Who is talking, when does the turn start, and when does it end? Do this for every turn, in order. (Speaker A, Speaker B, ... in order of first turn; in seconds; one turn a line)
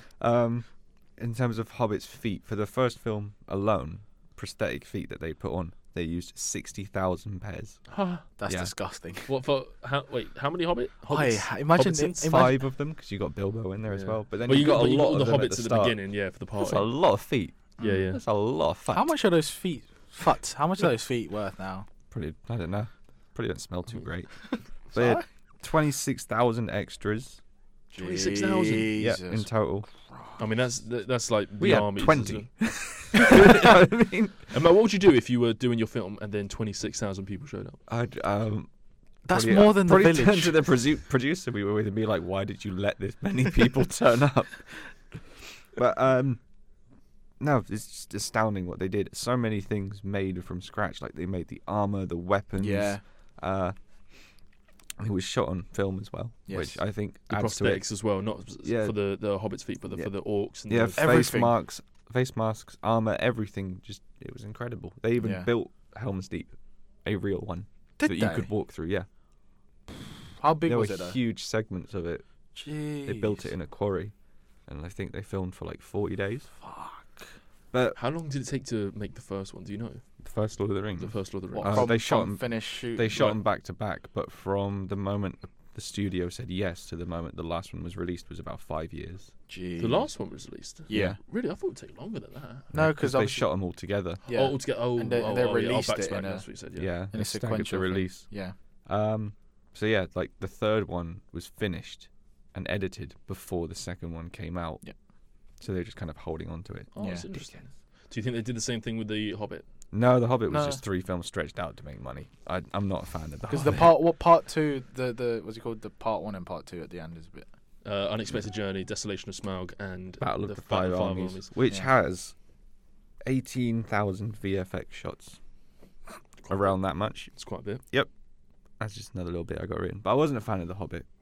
Speaker A: 0.2-7.9
Speaker B: 7.9-8.2
Speaker C: 8.4-9.3
Speaker A: 8.5-8.7
Speaker B: 9.3-12.3
Speaker C: 11.1-12.6
Speaker A: 11.8-16.0
Speaker B: 13.9-16.9
Speaker A: 16.6-19.1
Speaker C: 17.8-18.1
Speaker B: 17.8-18.2
Speaker C: 18.9-21.9
Speaker A: 22.1-27.4
Speaker C: 24.5-25.3
Speaker C: 27.9-29.5
Speaker B: 28.0-28.9
Speaker A: 28.9-29.9
Speaker C: 30.1-30.4
Speaker B: 30.4-32.5
Speaker A: 31.6-34.4
Speaker B: 34.5-37.8
Speaker A: 37.9-38.7
Speaker C: 39.3-40.6
Speaker A: 39.3-46.4
Speaker A: 47.4-53.8
Speaker C: 52.6-53.0
Speaker A: 55.0-57.8
Speaker C: 56.5-56.8
Speaker B: 57.3-61.1
Speaker A: 58.6-59.0
Speaker A: 60.7-66.5
Speaker C: 61.0-61.5
Speaker C: 65.2-65.5
Speaker A: 67.0-69.1
Speaker C: 68.0-68.5
Speaker C: 70.4-71.2
Speaker A: 70.7-72.2
Speaker C: 72.5-73.5
Speaker A: 73.1-74.1
Speaker A: 74.7-76.5
Speaker C: 76.6-77.3
Speaker A: 77.7-78.0
Speaker B: 78.0-80.0
Speaker A: 80.2-89.3
Speaker B: 81.0-81.9
Speaker C: 81.5-83.4
Speaker C: 89.5-90.2
Speaker B: 89.8-92.7
Speaker C: 90.9-91.2
Speaker A: 90.9-91.2
Speaker A: 92.7-94.2
Speaker C: 92.7-93.5
Speaker C: 94.3-96.5
Speaker B: 94.3-96.9
Speaker A: 96.8-98.3
Speaker C: 97.1-98.5
Speaker A: 98.9-104.8
Speaker A: 105.6-107.6
Speaker B: 106.9-109.7
Speaker C: 107.0-107.3
Speaker A: 109.9-114.0
Speaker C: 110.5-110.8
Speaker C: 113.5-117.5
Speaker B: 117.8-121.5
Speaker A: 120.2-122.3
Speaker A: 123.2-125.4
Speaker B: 126.5-126.8
Speaker A: 126.5-127.3
Speaker B: 127.3-127.8
Speaker A: 128.8-131.1